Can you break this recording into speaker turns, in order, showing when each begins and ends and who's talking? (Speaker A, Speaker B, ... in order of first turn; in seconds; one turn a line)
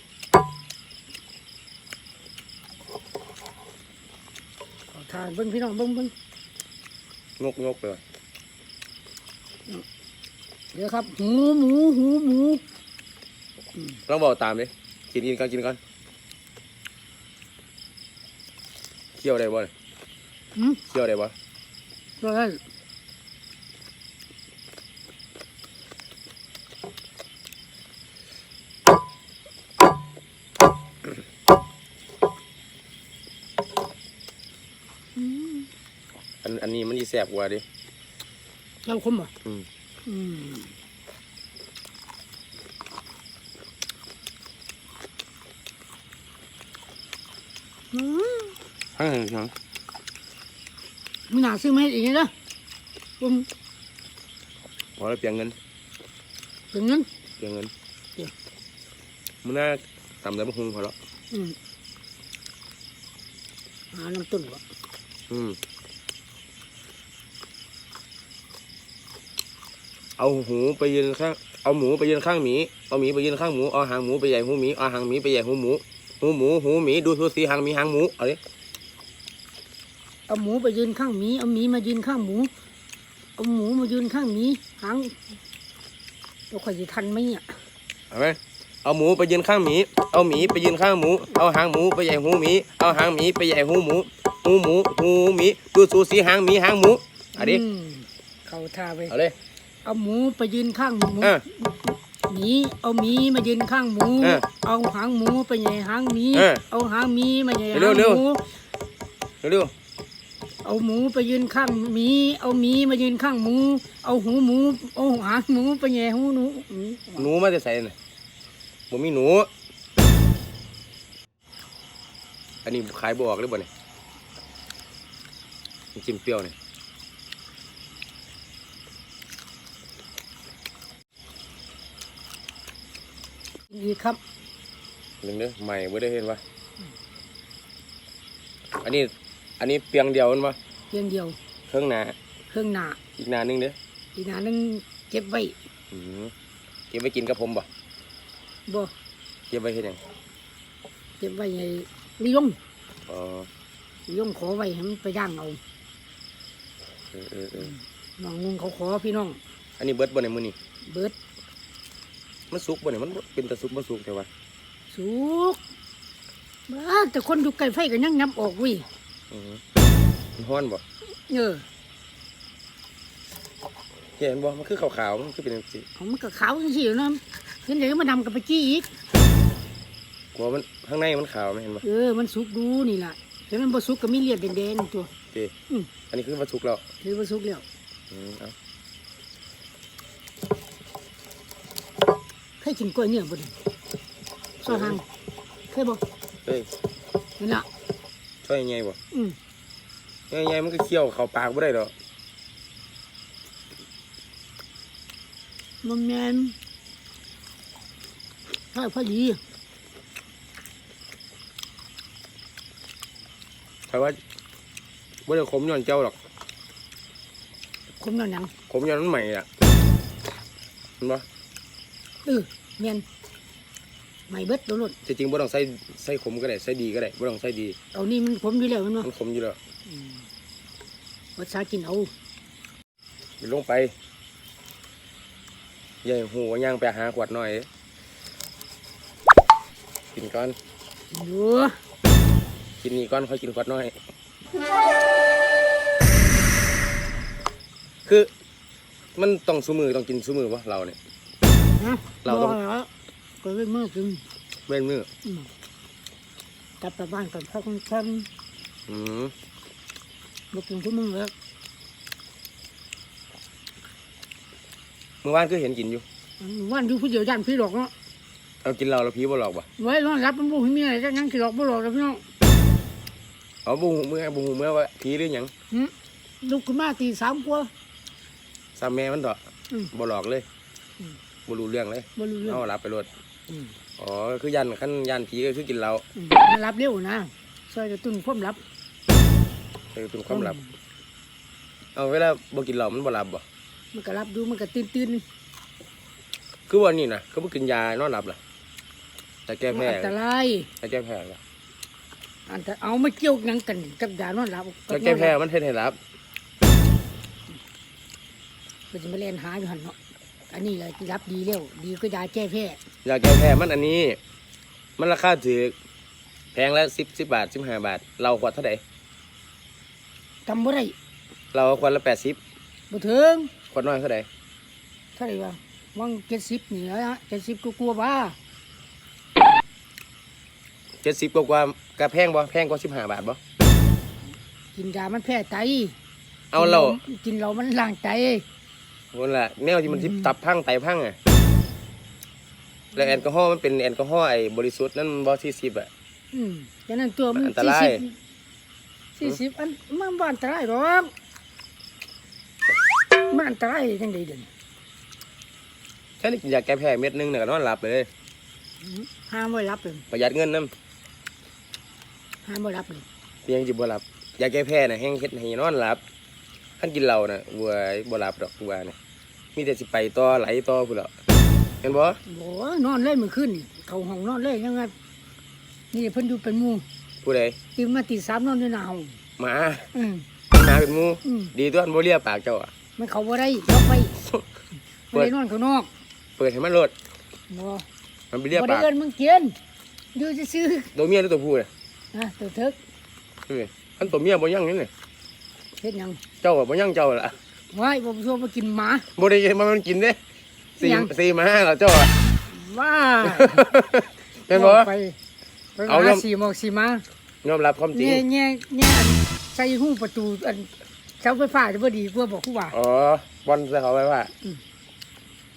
Speaker A: 4.9-6.1
Speaker B: 7.4-8.0
Speaker A: 10.7-12.6
Speaker B: 14.1-15.8
Speaker B: 19.2-19.7
Speaker B: 20.9-21.3
Speaker A: 22.2-22.6
Speaker A: 35.2-35.7
Speaker B: 36.4-37.6
Speaker A: 38.9-39.3
Speaker A: 40.1-40.7
Speaker A: 47.9-48.5
Speaker B: 49.0-49.5
Speaker A: 51.3-52.3
Speaker A: 53.2-53.5
Speaker B: 55.0-55.6
Speaker A: 56.7-57.1
Speaker B: 57.4-57.7
Speaker B: 59.4-61.0
Speaker A: 61.3-61.6
Speaker A: 63.9-64.6
Speaker B: 65.3-65.6
Speaker B: 70.2-78.4
Speaker A: 80.3-82.5
Speaker A: 83.4-85.1
Speaker A: 86.5-87.5
Speaker B: 88.1-97.6
Speaker A: 97.4-99.2
Speaker B: 99.1-99.4
Speaker A: 99.8-108.5
Speaker B: 106.3-106.6
Speaker B: 107.7-108.2
Speaker B: 109.4-109.7
Speaker A: 110.6-117.3
Speaker B: 117.2-118.0
Speaker B: 118.9-119.5
Speaker B: 122.6-123.7
Speaker B: 126.0-126.5
Speaker A: 133.7-134.2
Speaker B: 135.2-136.4
Speaker B: 138.8-140.6
Speaker A: 140.9-141.4
Speaker B: 141.7-142.2
Speaker A: 142.5-143.0
Speaker B: 143.2-143.8
Speaker A: 144.2-145.6
Speaker B: 145.9-146.3
Speaker B: 146.9-147.7
Speaker B: 149.5-150.0
Speaker A: 151.2-152.6
Speaker B: 153.1-153.5
Speaker A: 154.1-155.6
Speaker B: 157.1-157.7
Speaker A: 157.6-159.4
Speaker B: 159.8-160.6
Speaker A: 160.9-161.2
Speaker B: 162.5-164.3
Speaker A: 164.9-165.6
Speaker A: 166.7-168.9
Speaker B: 169.3-169.6
Speaker B: 170.4-170.8
Speaker A: 171.3-171.7
Speaker B: 174.2-175.9
Speaker A: 176.0-178.9
Speaker B: 180.3-181.8
Speaker A: 181.8-185.1
Speaker B: 186.1-186.8
Speaker A: 187.0-187.7
Speaker B: 188.1-188.5
Speaker A: 192.6-193.6
Speaker A: 194.6-195.0
Speaker B: 194.7-195.0
Speaker A: 195.7-196.0
Speaker A: 197.4-197.7
Speaker B: 198.4-199.0
Speaker B: 200.3-201.9
Speaker A: 205.8-206.6
Speaker A: 208.7-209.4
Speaker B: 213.9-214.2
Speaker B: 215.3-216.2
Speaker A: 218.0-218.5
Speaker B: 218.7-219.5
Speaker A: 222.2-223.1
Speaker A: 224.3-224.9
Speaker B: 225.1-227.8
Speaker A: 227.9-229.1
Speaker B: 229.0-229.6
Speaker A: 229.9-230.2
Speaker A: 231.4-232.1
Speaker B: 233.4-233.9
Speaker B: 236.0-237.7
Speaker B: 240.2-240.6
Speaker A: 241.1-241.7
Speaker B: 242.8-244.0
Speaker B: 249.2-251.0
Speaker A: 251.8-252.9
Speaker B: 252.2-252.6
Speaker A: 253.4-254.2
Speaker B: 254.7-255.1
Speaker A: 255.2-255.5
Speaker A: 256.8-258.3
Speaker B: 258.9-259.3
Speaker A: 260.5-261.3
Speaker B: 265.2-266.0
Speaker A: 266.4-267.9
Speaker B: 268.6-269.7
Speaker A: 269.8-272.2
Speaker B: 273.6-275.5
Speaker A: 275.7-277.7
Speaker B: 278.8-279.4
Speaker B: 279.9-280.4
Speaker B: 281.5-283.1
Speaker A: 282.2-282.6
Speaker B: 284.0-286.1
Speaker A: 286.1-288.6
Speaker B: 289.9-290.6
Speaker A: 290.3-290.7
Speaker B: 292.0-293.4
Speaker A: 293.9-295.2
Speaker B: 296.7-298.4
Speaker B: 299.5-300.1
Speaker A: 299.7-300.7
Speaker B: 300.8-301.4
Speaker A: 302.5-305.3
Speaker B: 304.9-306.0
Speaker A: 308.9-310.0
Speaker A: 310.5-312.8
Speaker B: 313.1-314.2
Speaker B: 315.0-315.8
Speaker B: 316.5-318.8
Speaker A: 320.5-320.9
Speaker B: 321.5-322.4
Speaker A: 322.9-323.5
Speaker B: 323.7-324.3
Speaker A: 325.2-328.4
Speaker B: 331.0-333.4
Speaker A: 334.7-336.0
Speaker B: 336.5-337.0
Speaker A: 336.6-338.4
Speaker B: 339.1-341.2
Speaker A: 339.9-340.3
Speaker A: 342.9-343.2
Speaker B: 343.0-345.9
Speaker A: 346.3-348.2
Speaker B: 347.4-348.0
Speaker A: 349.2-351.1
Speaker A: 353.3-354.5
Speaker B: 356.2-358.1
Speaker A: 358.8-360.1
Speaker B: 360.1-360.7
Speaker A: 362.4-363.1
Speaker B: 363.5-366.0
Speaker B: 366.8-368.9
Speaker B: 369.6-371.1
Speaker B: 371.8-372.2
Speaker A: 372.3-374.9
Speaker A: 375.9-376.9
Speaker B: 377.2-377.6
Speaker A: 377.8-379.2
Speaker B: 379.4-379.9
Speaker A: 379.9-380.2
Speaker B: 380.5-382.7
Speaker A: 381.2-381.5
Speaker A: 383.0-384.2
Speaker A: 385.1-385.9
Speaker B: 386.4-386.9
Speaker A: 387.5-387.9
Speaker B: 388.3-388.9
Speaker A: 388.5-389.6
Speaker A: 390.1-390.9
Speaker B: 390.9-391.7
Speaker A: 392.1-392.8
Speaker B: 393.5-394.9
Speaker A: 395.8-396.2
Speaker B: 396.4-397.4
Speaker A: 397.7-399.1
Speaker B: 399.2-400.2
Speaker A: 400.8-401.1
Speaker B: 400.8-402.1
Speaker A: 402.5-403.6
Speaker B: 403.2-404.9
Speaker A: 404.4-405.2
Speaker A: 405.8-407.1
Speaker B: 405.9-406.2
Speaker B: 407.4-408.2
Speaker A: 407.9-410.7
Speaker A: 411.2-412.8
Speaker B: 412.7-414.3